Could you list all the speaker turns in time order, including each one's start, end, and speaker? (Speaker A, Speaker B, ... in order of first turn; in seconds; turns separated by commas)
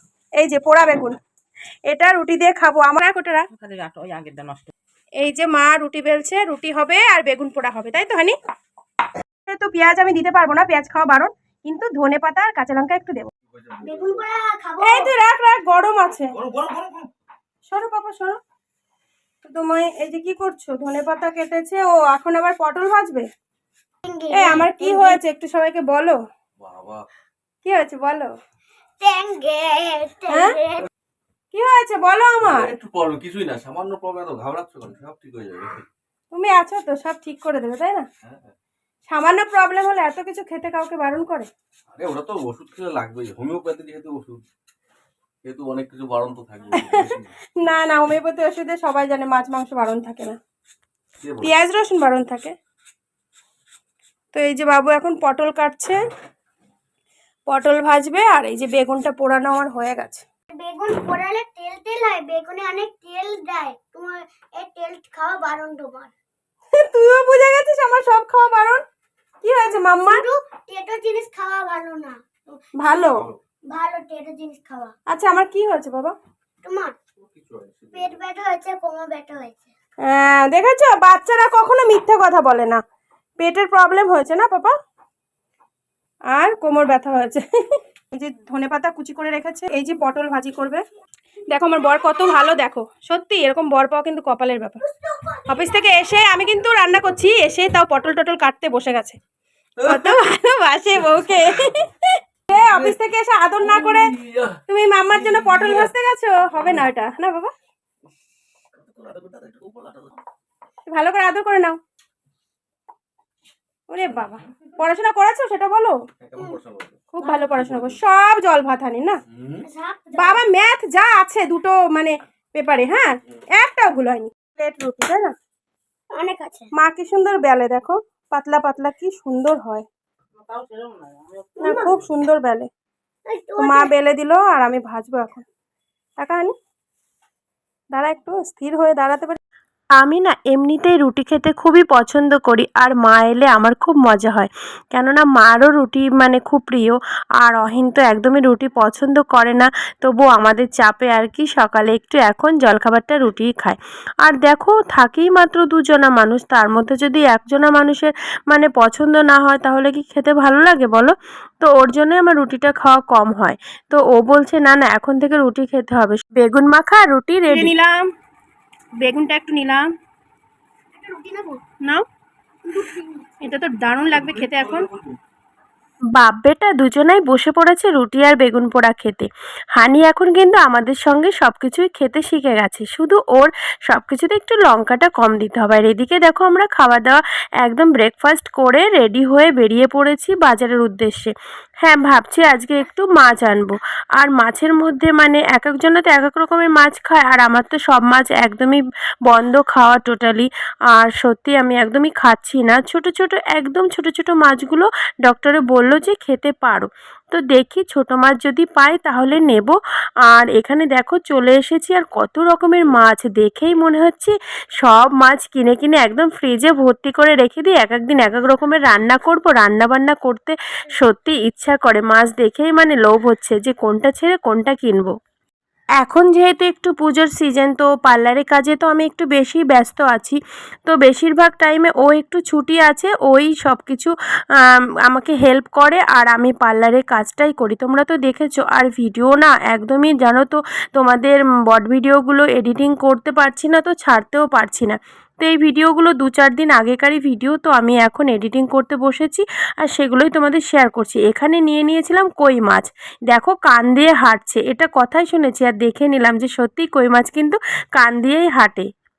Speaker A: 0.4-1.2, Speaker A: 1.9-3.5, Speaker B: 3.5-4.7, Speaker A: 5.2-8.4, Speaker A: 9.5-13.3, Speaker C: 13.5-14.3, Speaker D: 13.8-15.1, Speaker A: 14.8-16.3, Speaker C: 16.4-17.1, Speaker A: 17.7-18.4, Speaker A: 19.4-23.3, Speaker D: 24.1-25.2, Speaker A: 24.3-26.2, Speaker C: 26.6-27.0, Speaker A: 27.6-28.3, Speaker D: 29.0-30.9, Speaker A: 30.3-30.6, Speaker A: 31.5-32.7, Speaker C: 32.4-35.8, Speaker A: 36.3-38.1, Speaker C: 38.2-38.5, Speaker A: 39.1-41.5, Speaker C: 41.9-44.4, Speaker C: 45.5-47.3, Speaker A: 46.7-50.4, Speaker C: 51.2-51.5, Speaker A: 51.4-52.5, Speaker A: 54.3-56.0, Speaker A: 57.5-60.2, Speaker D: 60.5-66.1, Speaker A: 66.7-68.8, Speaker A: 69.4-70.2, Speaker D: 69.7-73.0, Speaker A: 72.8-73.3, Speaker D: 73.7-75.0, Speaker A: 75.1-76.2, Speaker D: 76.6-77.0, Speaker C: 77.3-78.2, Speaker D: 77.9-79.7, Speaker A: 80.0-82.8, Speaker A: 83.4-84.8, Speaker A: 86.3-90.8, Speaker A: 91.5-94.8, Speaker D: 92.0-92.4, Speaker D: 94.8-96.3, Speaker A: 95.5-99.2, Speaker C: 99.8-100.2, Speaker A: 99.8-104.1, Speaker C: 100.9-101.6, Speaker C: 102.7-102.9, Speaker C: 103.6-104.6, Speaker A: 104.7-107.5, Speaker C: 105.1-105.9, Speaker C: 108.8-110.2, Speaker A: 110.9-111.8, Speaker A: 113.9-116.0, Speaker C: 116.2-116.9, Speaker A: 117.1-119.2, Speaker D: 117.2-117.5, Speaker C: 117.6-118.0, Speaker C: 119.3-119.7, Speaker D: 119.6-120.4, Speaker A: 120.2-125.3, Speaker D: 126.1-126.7, Speaker A: 126.8-129.8, Speaker B: 130.4-131.6, Speaker D: 131.6-131.9, Speaker A: 131.6-132.7, Speaker D: 133.3-133.9, Speaker A: 133.6-135.4, Speaker A: 136.2-136.5, Speaker A: 137.9-139.4, Speaker E: 140.0-167.7, Speaker A: 167.5-168.1, Speaker A: 169.0-169.8, Speaker D: 170.9-171.6, Speaker D: 172.7-173.2, Speaker A: 173.4-174.9, Speaker C: 174.2-175.2, Speaker E: 176.2-225.1, Speaker E: 226.0-258.9